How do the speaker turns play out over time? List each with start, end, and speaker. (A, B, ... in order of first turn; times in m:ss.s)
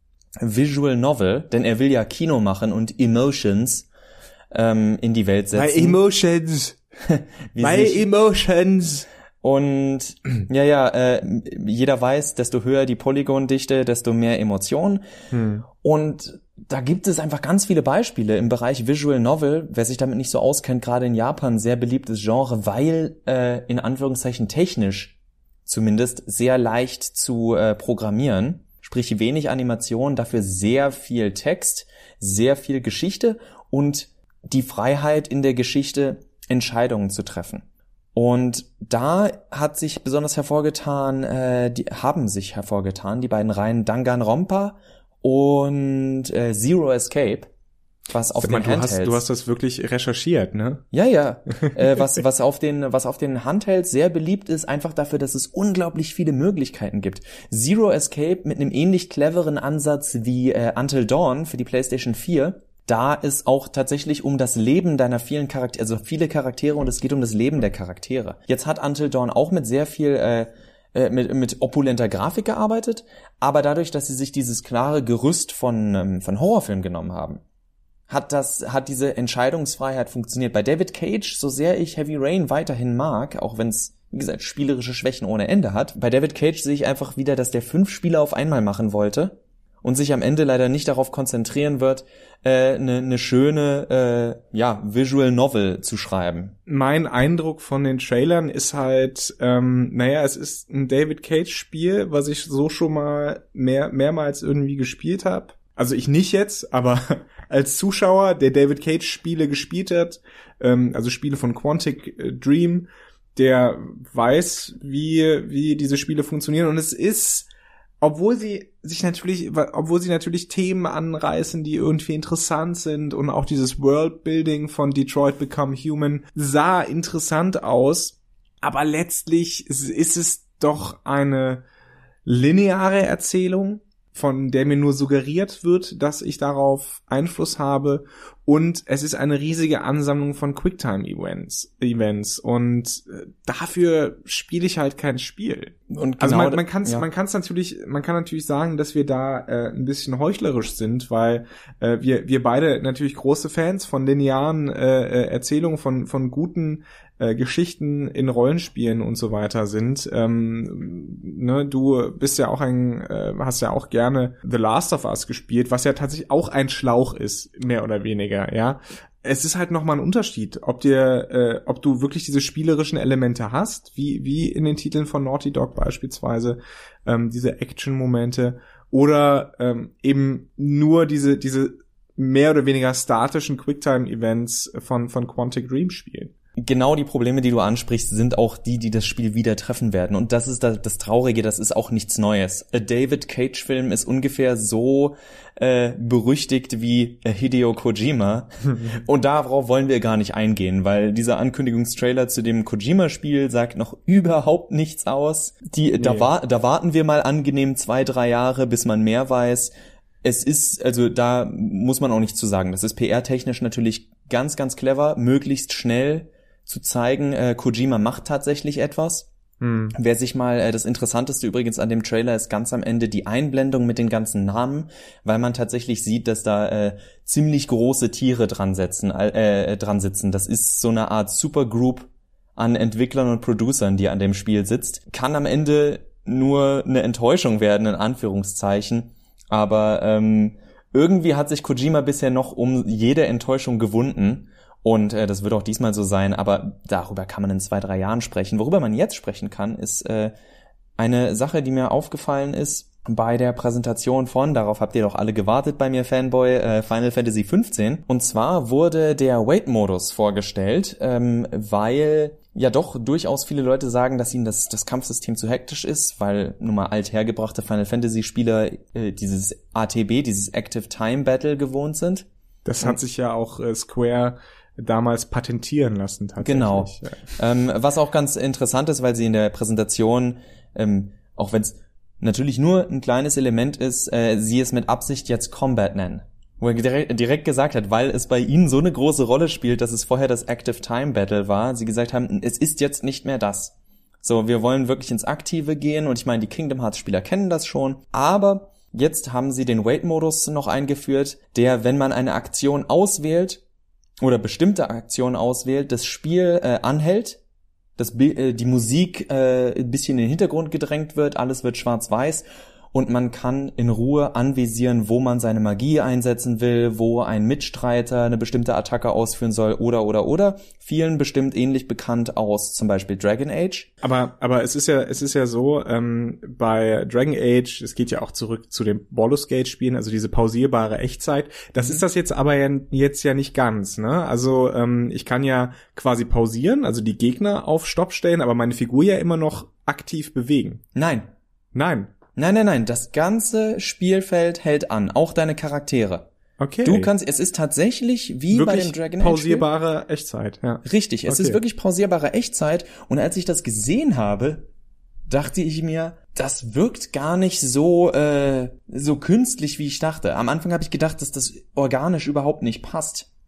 0:00.4-0:03.9 A
0:04.5-0:06.0 A
0:05.5-0:06.8 B
0:07.0-0:08.1 A
0:07.6-0:09.0 B
0:09.4-0:15.0 A
0:15.3-0:15.6 B
0:15.8-0:25.1 A
0:25.6-0:47.5 A
0:48.1-0:49.2 A
0:48.4-0:50.8 B
0:50.9-1:17.4 A
1:18.1-1:36.5 A
1:36.7-1:57.5 B
1:58.0-2:11.6 B
2:12.2-3:06.3 B
2:25.9-2:27.0 A
3:06.6-3:29.7 A
3:26.0-3:26.3 B
3:30.2-3:39.3 A
3:39.6-3:39.9 B
3:39.9-4:10.3 A
4:11.0-4:32.3 A
4:32.6-4:37.4 B
4:36.4-5:03.6 A
5:04.2-5:07.4 A
5:08.0-5:23.9 A
5:24.0-5:40.8 B
5:40.9-5:41.3 A
5:41.7-5:42.1 B
5:42.3-5:46.3 A
5:46.6-5:47.1 B
5:46.8-5:49.6 A
5:48.5-5:51.6 B
5:50.8-5:54.7 A
5:55.3-6:03.3 A